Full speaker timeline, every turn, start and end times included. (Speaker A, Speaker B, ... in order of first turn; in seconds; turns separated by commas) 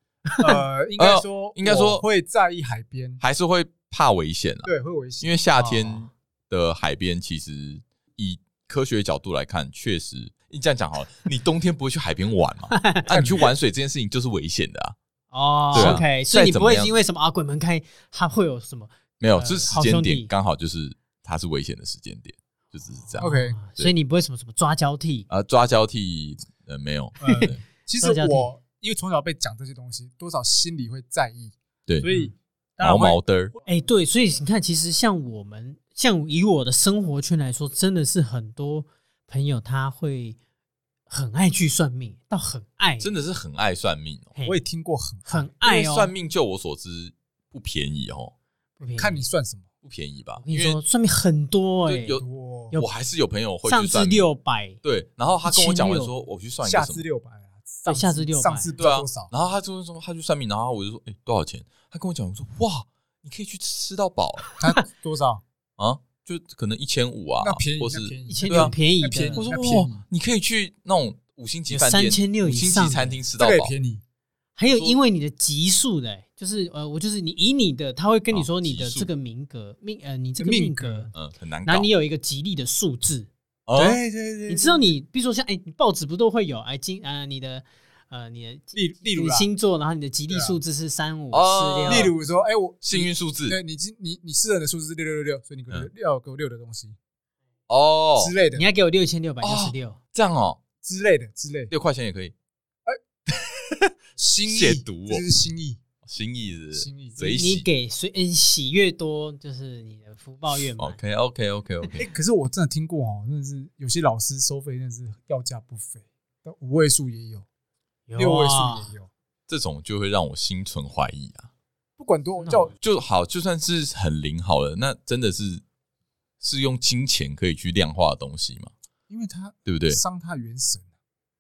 Speaker A: 0.4-3.2, Speaker B: 1.0-2.0, Speaker B: 3.2-15.0, Speaker A: 4.7-5.3, Speaker C: 5.5-6.1, Speaker C: 12.7-13.2, Speaker A: 13.1-13.5, Speaker C: 15.3-20.3, Speaker B: 15.7-16.9, Speaker A: 15.7-16.0, Speaker B: 19.2-23.9, Speaker C: 22.9-25.3, Speaker A: 23.2-23.6, Speaker B: 25.3-27.6, Speaker A: 27.2-33.8, Speaker C: 27.2-28.5, Speaker C: 32.1-32.3, Speaker B: 32.8-33.5, Speaker C: 33.7-40.4, Speaker C: 41.1-43.1, Speaker B: 43.0-44.3, Speaker C: 44.4-44.6, Speaker A: 44.5-45.5, Speaker C: 45.3-46.1, Speaker B: 45.6-48.3, Speaker C: 48.8-49.3, Speaker A: 49.0-49.7, Speaker B: 49.9-50.8, Speaker C: 50.4-52.9, Speaker B: 51.9-52.2, Speaker A: 52.1-52.7, Speaker B: 52.8-54.3, Speaker C: 53.7-54.8, Speaker B: 54.8-57.0, Speaker C: 55.5-56.1, Speaker A: 56.6-59.3, Speaker C: 57.9-58.7, Speaker B: 58.8-64.5, Speaker C: 64.5-64.8, Speaker A: 64.6-65.4, Speaker B: 65.8-68.7, Speaker A: 67.4-70.0, Speaker C: 68.3-69.5, Speaker B: 69.4-73.7, Speaker C: 71.7-73.2, Speaker A: 73.4-74.0, Speaker C: 74.6-81.1, Speaker B: 74.7-75.0, Speaker B: 78.3-79.1, Speaker A: 80.4-81.1, Speaker B: 81.1-81.9, Speaker C: 81.7-83.3, Speaker B: 83.7-84.0, Speaker A: 83.8-84.9, Speaker C: 84.5-92.1, Speaker A: 88.7-89.5, Speaker A: 90.3-90.6, Speaker B: 91.3-92.1, Speaker A: 91.9-97.0, Speaker B: 92.8-93.6, Speaker B: 97.7-98.3, Speaker A: 98.2-98.7, Speaker C: 98.5-100.0, Speaker B: 99.4-100.6, Speaker A: 100.8-101.7, Speaker B: 101.7-102.3, Speaker B: 103.5-103.8, Speaker A: 104.2-105.8, Speaker B: 104.5-105.2, Speaker B: 106.0-107.7, Speaker A: 106.7-107.5, Speaker C: 107.3-111.0, Speaker B: 110.8-112.1, Speaker A: 112.0-117.5, Speaker C: 118.1-118.9, Speaker A: 118.2-119.1, Speaker B: 119.5-121.5, Speaker A: 122.0-122.8, Speaker C: 122.4-122.7, Speaker B: 122.8-125.6, Speaker B: 126.4-128.7, Speaker A: 129.1-130.9, Speaker B: 129.7-130.0